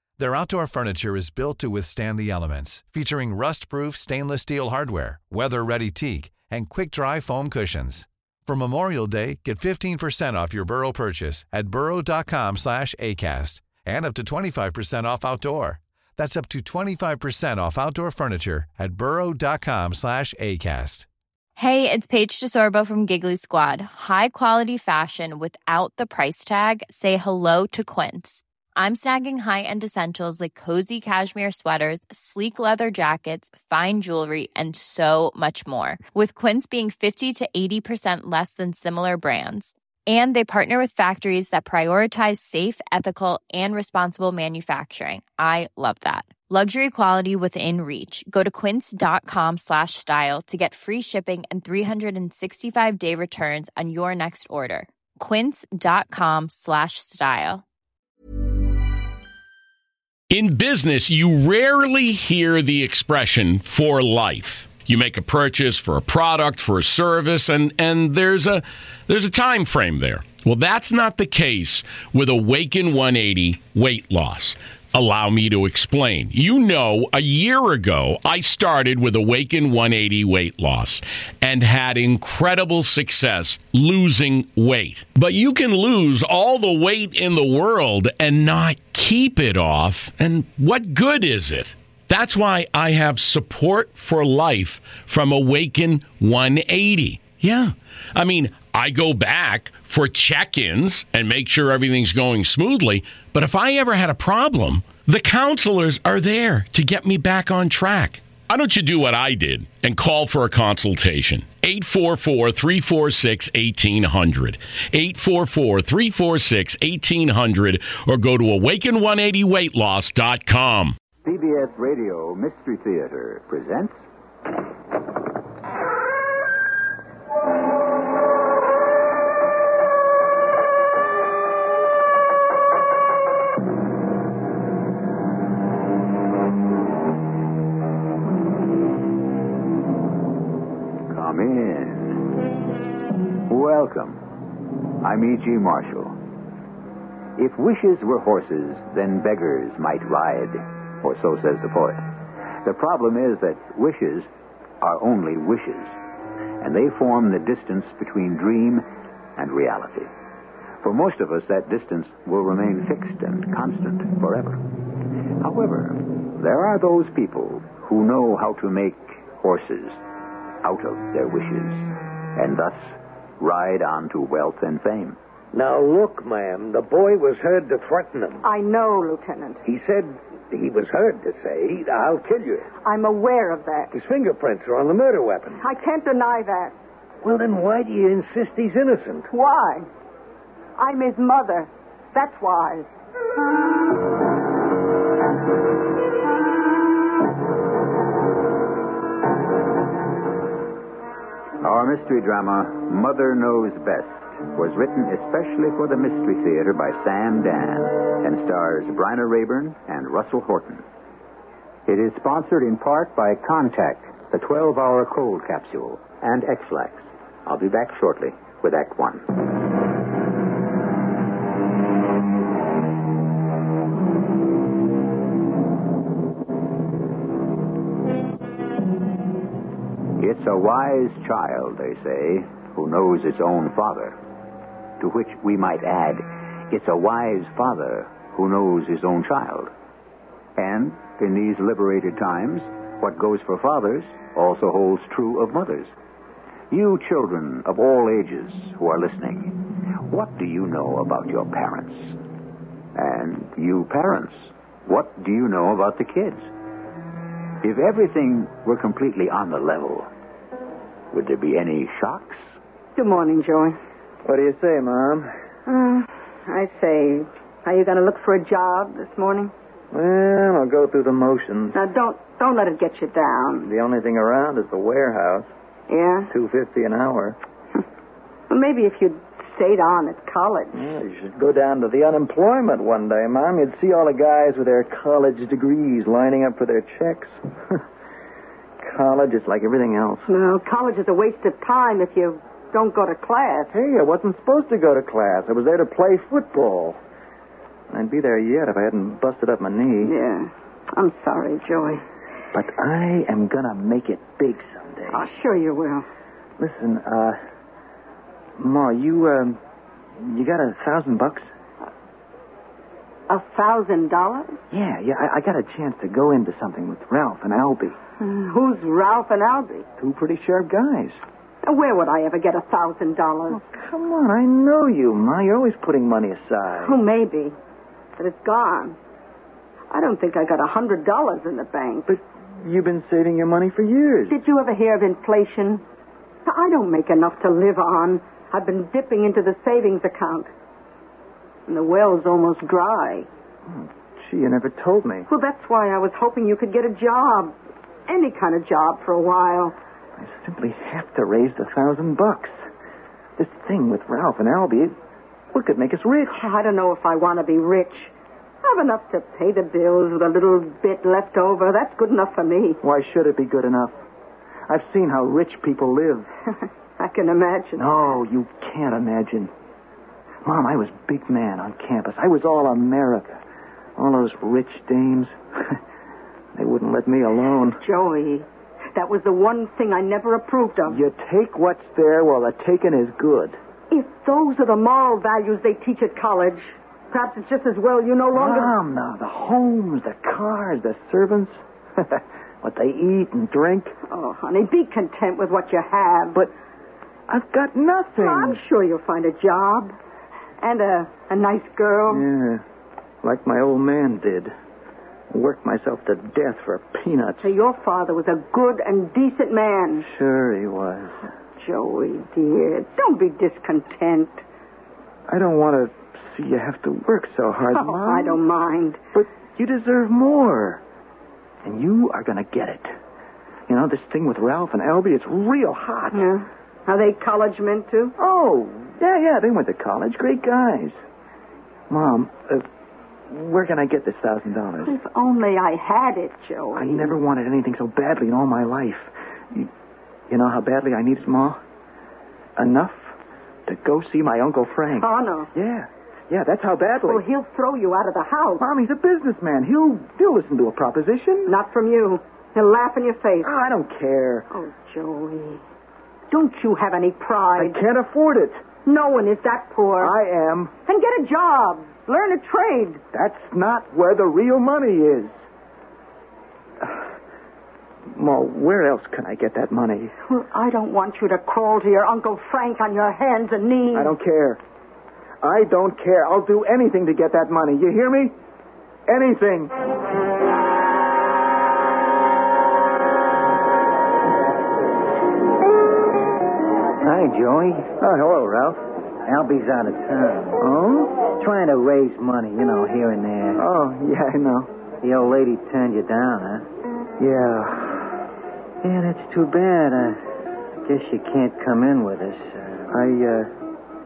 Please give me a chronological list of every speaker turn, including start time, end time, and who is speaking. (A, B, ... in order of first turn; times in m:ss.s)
0:00.2-0:21.1 A
0:21.6-0:57.6 B
1:00.3-2:01.0 C
2:01.2-2:04.0 D
2:21.1-2:22.3 D
2:23.5-2:24.2 D
2:25.0-2:26.2 D
2:27.4-2:32.0 D
2:32.6-2:34.3 D
2:34.8-2:36.0 D
2:36.6-2:40.1 D
2:40.8-2:44.6 D
2:45.4-2:50.0 D
2:50.6-2:55.2 D
2:55.5-2:58.4 E
2:58.4-2:59.6 F
2:59.6-3:02.7 E
3:02.8-3:03.9 F
3:03.9-3:05.6 E
3:05.6-3:06.7 F
3:07.2-3:09.3 E
3:09.3-3:09.9 F
3:10.8-3:12.9 F
3:21.6-3:30.8 D
3:31.9-3:39.3 D
3:50.2-3:54.2 D
3:55.0-3:59.7 D
4:00.6-4:05.9 D
4:06.7-4:12.2 D
4:12.9-4:16.5 D
4:17.6-4:20.1 D
4:21.1-4:22.4 D
4:23.0-4:23.8 F
4:24.2-4:25.3 G
4:25.7-4:29.5 F
4:29.9-4:31.8 G
4:31.7-4:33.7 F
4:33.6-4:35.5 G
4:35.9-4:36.3 F
4:36.3-4:37.4 G
4:38.5-4:40.8 F
4:40.7-4:47.8 G
4:48.8-4:50.3 G
4:50.3-4:53.7 F
4:53.7-4:57.0 G
4:57.9-5:00.2 G
5:00.0-5:02.0 F
5:02.5-5:05.2 G
5:05.1-5:06.1 F
5:06.6-5:07.4 G
5:08.6-5:09.6 G
5:10.2-5:11.5 G
5:13.3-5:14.6 F
5:14.7-5:18.0 G
5:18.2-5:19.8 F
5:20.0-5:21.2 G
5:21.6-5:23.6 F
5:23.5-5:27.0 G
5:26.8-5:27.6 F
5:28.2-5:29.0 F
5:29.9-5:32.2 F
5:32.1-5:34.4 G
5:34.3-5:35.8 F
5:36.4-5:40.5 F
5:41.7-5:43.3 F
5:43.6-5:45.3 G
5:45.3-5:47.5 F
5:48.1-5:49.8 F
5:50.2-5:52.6 G
5:53.4-5:55.0 G
5:55.5-5:56.5 G
5:56.3-5:58.1 F
5:58.6-6:02.8 F
6:02.8-6:03.9 G
6:04.7-6:06.3 G
6:07.0-6:08.0 F
6:07.8-6:09.5 G
6:10.4-6:13.4 G
6:14.0-6:15.8 G
6:16.5-6:17.8 G
6:17.8-6:21.0 F
6:20.8-6:23.6 G
6:23.9-6:28.8 F
6:28.3-6:33.9 G
6:34.1-6:36.4 F
6:37.3-6:38.6 G
6:38.2-6:39.9 F
6:40.6-6:42.2 F
6:42.1-6:42.6 G
6:43.2-6:44.5 G
6:45.3-6:47.5 G
6:47.4-6:50.1 F
6:50.0-6:51.2 G
6:51.6-6:54.4 F
6:55.3-6:58.4 G
6:57.7-6:59.0 F
6:59.1-7:00.8 G
7:01.6-7:02.9 G
7:03.7-7:06.3 G
7:06.1-7:08.1 F
7:08.2-7:11.0 G
7:11.9-7:12.6 G
7:13.3-7:15.0 G
7:14.8-7:17.2 F
7:16.7-7:19.7 G
7:20.3-7:21.6 G
7:22.6-7:27.2 G
7:25.0-7:25.5 F
7:27.0-7:28.6 F
7:28.6-7:31.5 G
7:31.5-7:33.5 F
7:33.4-7:34.5 G
7:34.5-7:35.6 F
7:36.3-7:37.8 F
7:37.6-7:38.6 G
7:38.8-7:40.2 F
7:40.0-7:40.7 G
7:40.8-7:43.0 F
7:43.1-7:45.4 G
7:46.8-7:47.0 G
7:48.1-7:50.1 G
7:50.2-7:54.1 F
7:53.9-7:54.6 G
7:55.4-7:58.4 G
7:59.1-7:59.7 G
8:07.0-8:10.6 H
8:08.0-8:08.4 G
8:10.6-8:11.1 G
8:11.3-8:13.6 H
8:13.6-8:14.7 G
8:15.0-8:16.7 H
8:17.2-8:18.1 G
8:18.8-8:20.2 H
8:20.8-8:22.9 H
8:22.9-8:23.5 G